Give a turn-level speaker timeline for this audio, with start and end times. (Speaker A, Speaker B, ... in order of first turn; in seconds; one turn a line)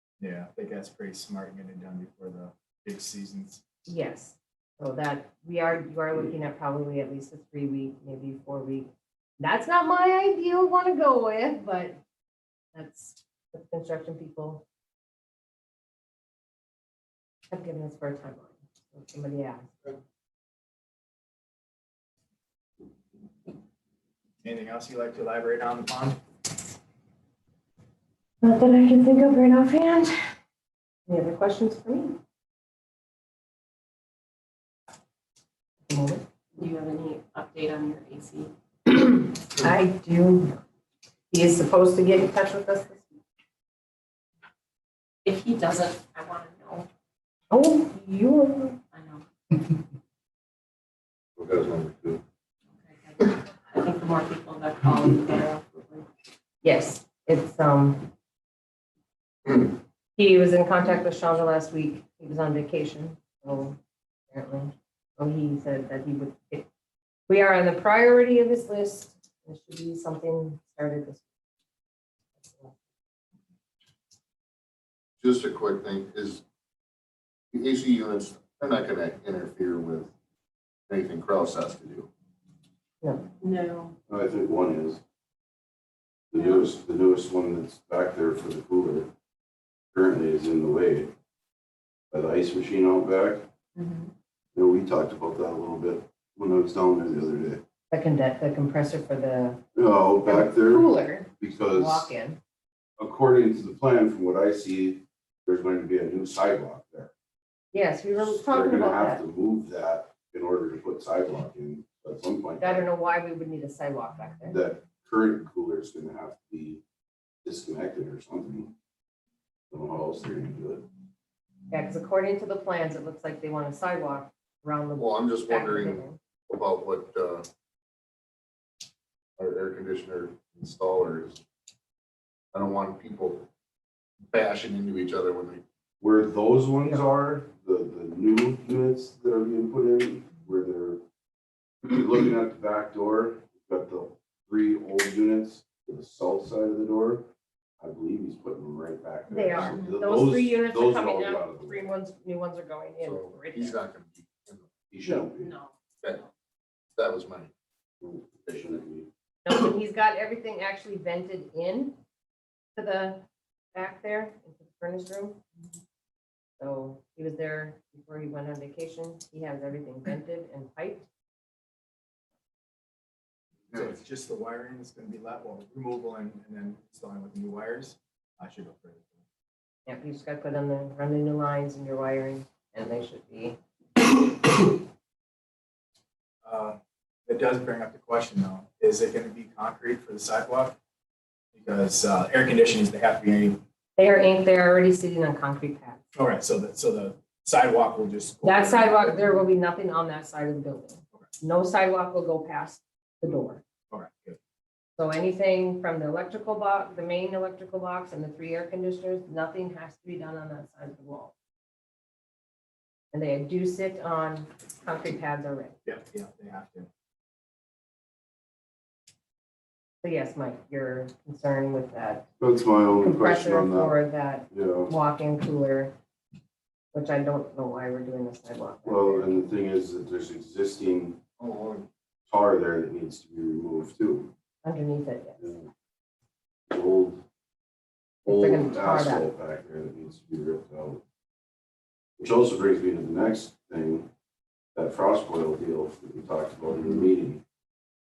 Speaker A: 0.2-3.6
Speaker B: 3.9-12.0
Speaker B: 12.7-14.6
Speaker B: 17.5-20.0
Speaker A: 24.4-26.2
Speaker B: 28.4-30.1
Speaker B: 31.1-32.2
Speaker B: 35.9-36.2
Speaker C: 36.5-38.5
Speaker B: 38.9-40.5
Speaker B: 41.3-43.2
Speaker C: 45.2-46.9
Speaker B: 47.5-48.8
Speaker C: 48.9-49.2
Speaker D: 51.4-52.2
Speaker C: 52.8-56.0
Speaker B: 56.6-58.1
Speaker B: 60.2-63.8
Speaker B: 64.3-66.6
Speaker B: 67.3-71.2
Speaker B: 72.4-72.7
Speaker D: 75.2-76.4
Speaker D: 77.5-80.1
Speaker D: 80.9-82.1
Speaker C: 83.4-83.9
Speaker E: 84.1-85.0
Speaker E: 86.3-89.1
Speaker C: 86.3-86.6
Speaker E: 89.9-91.1
Speaker E: 92.1-93.5
Speaker C: 93.8-94.1
Speaker E: 94.5-97.6
Speaker B: 97.9-99.6
Speaker E: 99.7-102.1
Speaker B: 100.2-102.4
Speaker E: 103.0-107.1
Speaker B: 107.7-109.2
Speaker E: 108.2-112.8
Speaker B: 112.6-114.6
Speaker E: 114.5-116.8
Speaker E: 117.4-118.7
Speaker E: 119.7-120.8
Speaker B: 121.7-126.2
Speaker D: 125.0-127.5
Speaker D: 129.4-131.4
Speaker D: 132.5-133.5
Speaker D: 134.3-135.6
Speaker E: 136.0-141.0
Speaker E: 141.8-147.3
Speaker E: 147.8-151.9
Speaker B: 149.3-153.8
Speaker D: 153.0-154.7
Speaker E: 154.9-155.5
Speaker C: 155.3-156.3
Speaker D: 156.9-157.5
Speaker E: 158.0-159.1
Speaker B: 159.4-161.9
Speaker B: 162.8-165.4
Speaker B: 166.6-171.1
Speaker A: 173.7-179.2
Speaker B: 179.8-183.6
Speaker A: 186.4-190.8
Speaker A: 191.5-193.6
Speaker B: 194.0-196.0
Speaker A: 196.1-199.4
Speaker B: 198.4-203.6
Speaker A: 203.9-204.4
Speaker B: 205.0-211.3
Speaker B: 213.1-215.8
Speaker A: 215.8-216.9
Speaker B: 220.0-222.3
Speaker E: 222.4-224.0
Speaker B: 223.0-225.9
Speaker E: 224.5-224.9
Speaker B: 226.9-229.4
Speaker E: 228.8-231.2
Speaker D: 231.4-231.9
Speaker E: 232.3-234.3
Speaker B: 234.6-235.5
Speaker E: 235.4-235.7
Speaker E: 236.7-237.2
Speaker E: 238.2-241.0
Speaker B: 238.2-239.2
Speaker E: 242.2-244.1
Speaker E: 244.7-247.4